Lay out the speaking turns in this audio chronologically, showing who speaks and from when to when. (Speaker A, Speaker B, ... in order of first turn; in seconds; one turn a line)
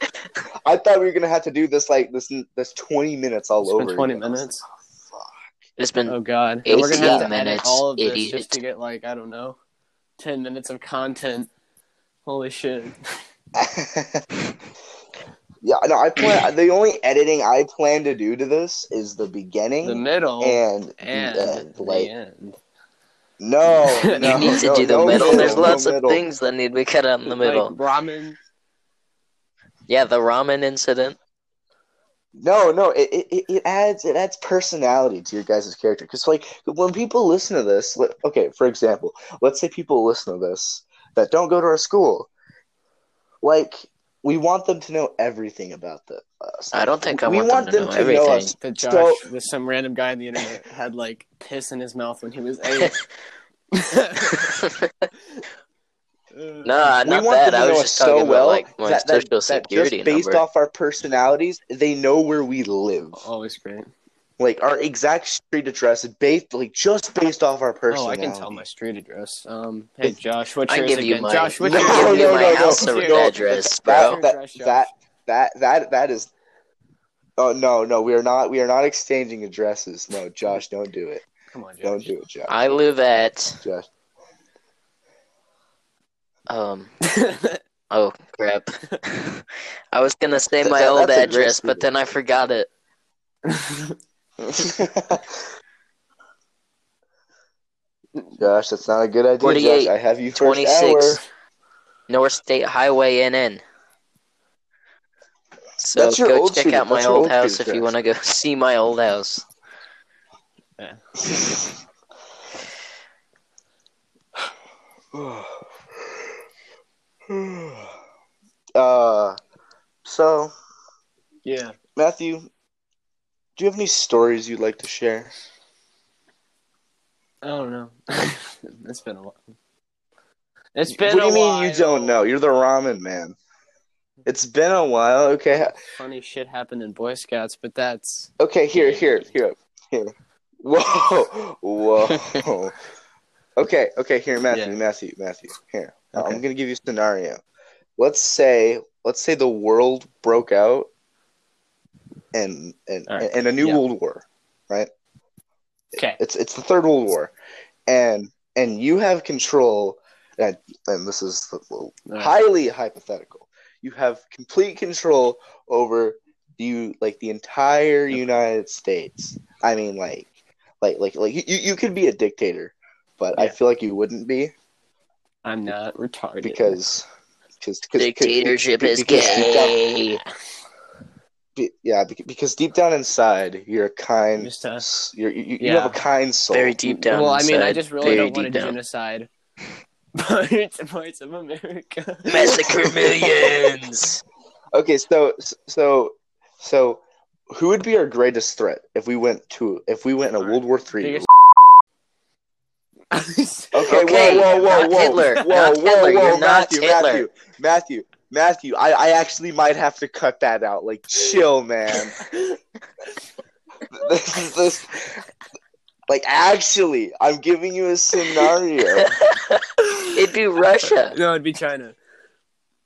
Speaker A: 0.6-4.5
Speaker B: 3.6-4.7
Speaker A: 5.0-5.3
Speaker C: 5.8-8.6
Speaker B: 6.1-9.6
Speaker A: 6.9-7.3
Speaker B: 10.2-11.5
Speaker B: 12.2-13.0
Speaker A: 13.6-14.2
Speaker A: 15.6-22.1
Speaker B: 19.8-22.6
Speaker A: 23.4-26.2
Speaker B: 23.9-25.8
Speaker C: 24.2-27.7
Speaker B: 27.2-28.4
Speaker C: 29.9-31.2
Speaker A: 32.4-42.3
Speaker A: 43.4-49.2
Speaker C: 46.7-48.5
Speaker B: 48.6-52.9
Speaker B: 53.7-54.6
Speaker C: 54.3-55.1
Speaker A: 56.3-63.2
Speaker C: 56.6-60.4
Speaker B: 63.1-63.9
Speaker A: 64.4-68.6
Speaker B: 67.9-74.9
Speaker C: 70.7-74.2
Speaker A: 71.6-76.3
Speaker A: 77.4-81.2
Speaker B: 81.5-82.1
Speaker A: 81.8-82.5
Speaker C: 82.5-83.6
Speaker A: 83.6-83.9
Speaker C: 86.5-87.0
Speaker B: 87.1-87.6
Speaker C: 87.9-92.7
Speaker A: 90.6-91.9
Speaker B: 93.5-93.9
Speaker A: 94.4-95.4
Speaker A: 98.4-101.2
Speaker C: 99.4-101.2
Speaker C: 102.1-103.6
Speaker C: 105.8-109.4
Speaker A: 106.0-107.9
Speaker B: 110.8-111.0
Speaker A: 111.2-111.7
Speaker A: 115.1-115.6
Speaker A: 117.3-117.9
Speaker A: 118.8-119.4
Speaker A: 120.0-120.5
Speaker B: 121.4-121.8
Speaker A: 122.0-122.5
Speaker A: 123.6-125.3
Speaker B: 127.4-129.5
Speaker B: 130.7-132.2
Speaker A: 130.9-133.3
Speaker A: 134.2-135.7
Speaker B: 135.5-139.3
Speaker A: 138.4-142.8
Speaker C: 142.2-142.4
Speaker A: 143.6-147.4
Speaker B: 144.5-144.8
Speaker B: 146.1-146.4
Speaker A: 148.0-150.9
Speaker A: 152.3-154.9
Speaker B: 153.1-153.8
Speaker A: 156.2-157.3
Speaker A: 157.9-170.3
Speaker B: 162.1-162.3
Speaker A: 170.8-174.5
Speaker B: 175.4-176.8
Speaker A: 176.4-177.0
Speaker A: 177.6-179.8
Speaker C: 178.0-180.2
Speaker B: 179.1-180.3
Speaker A: 181.6-186.8
Speaker B: 184.4-184.8
Speaker B: 185.6-186.0
Speaker C: 186.5-188.8
Speaker B: 186.8-189.3
Speaker B: 190.2-192.7
Speaker C: 192.2-194.2
Speaker A: 192.9-193.2
Speaker A: 194.7-201.3
Speaker B: 200.4-201.3
Speaker B: 203.1-205.4
Speaker A: 203.7-212.2
Speaker C: 203.9-207.2
Speaker B: 211.9-212.6
Speaker A: 213.9-215.2
Speaker A: 216.1-219.2
Speaker C: 218.9-221.2
Speaker B: 219.8-220.3
Speaker B: 221.1-222.0